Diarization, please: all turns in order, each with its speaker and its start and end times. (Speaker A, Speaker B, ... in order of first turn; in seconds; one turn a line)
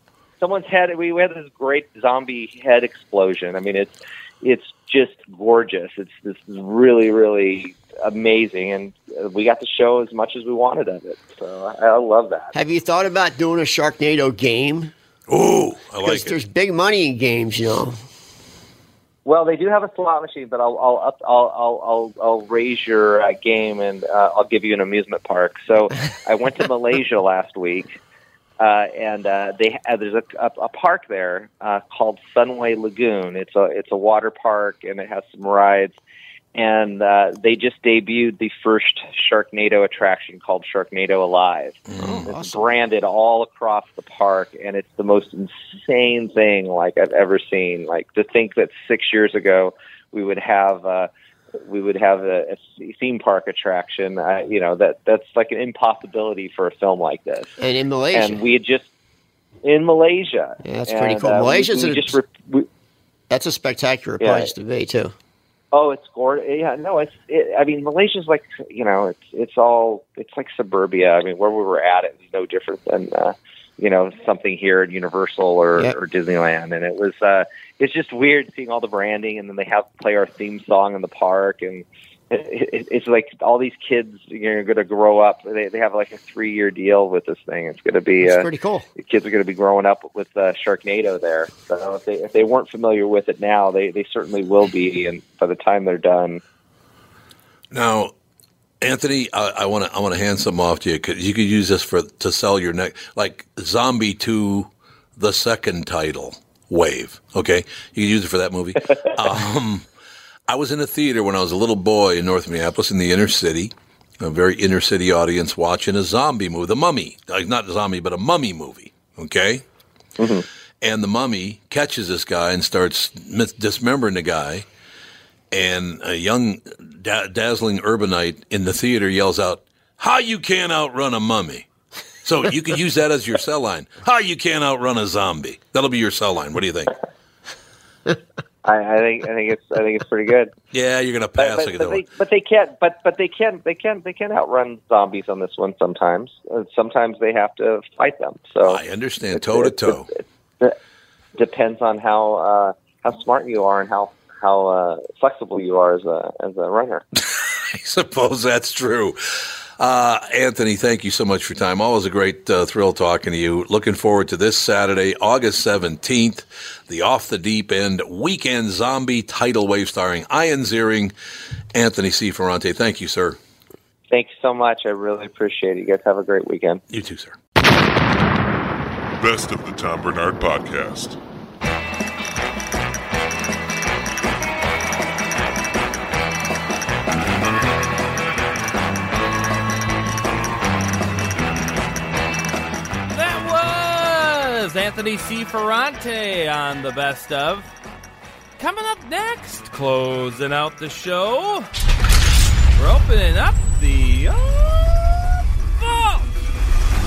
Speaker A: 0.4-12.5
Speaker B: 12.5-14.9
Speaker C: 15.3-16.3
Speaker B: 16.0-18.0
Speaker A: 19.3-27.9
Speaker A: 28.6-36.0
Speaker A: 36.5-41.8
Speaker C: 41.9-42.3
Speaker B: 42.0-42.8
Speaker A: 42.3-51.1
Speaker A: 51.6-57.5
Speaker B: 57.6-58.4
Speaker A: 58.1-58.9
Speaker A: 59.6-62.7
Speaker B: 60.6-62.2
Speaker B: 63.3-65.1
Speaker A: 64.2-64.5
Speaker A: 65.7-88.5
Speaker B: 88.2-88.9
Speaker A: 89.0-96.4
Speaker C: 97.7-98.1
Speaker C: 98.8-109.9
Speaker C: 110.5-119.6
Speaker A: 120.2-120.4
Speaker C: 120.8-124.7
Speaker C: 125.5-131.7
Speaker C: 132.2-136.9
Speaker A: 138.7-140.5
Speaker C: 140.7-142.0
Speaker A: 141.4-148.8
Speaker C: 148.6-150.1
Speaker A: 149.4-150.8
Speaker A: 151.4-157.0
Speaker C: 157.7-171.1
Speaker C: 171.7-173.4
Speaker A: 174.1-176.8
Speaker C: 176.9-177.4
Speaker D: 179.2-181.2
Speaker E: 193.1-197.7
Speaker E: 198.6-201.7
Speaker E: 202.8-206.3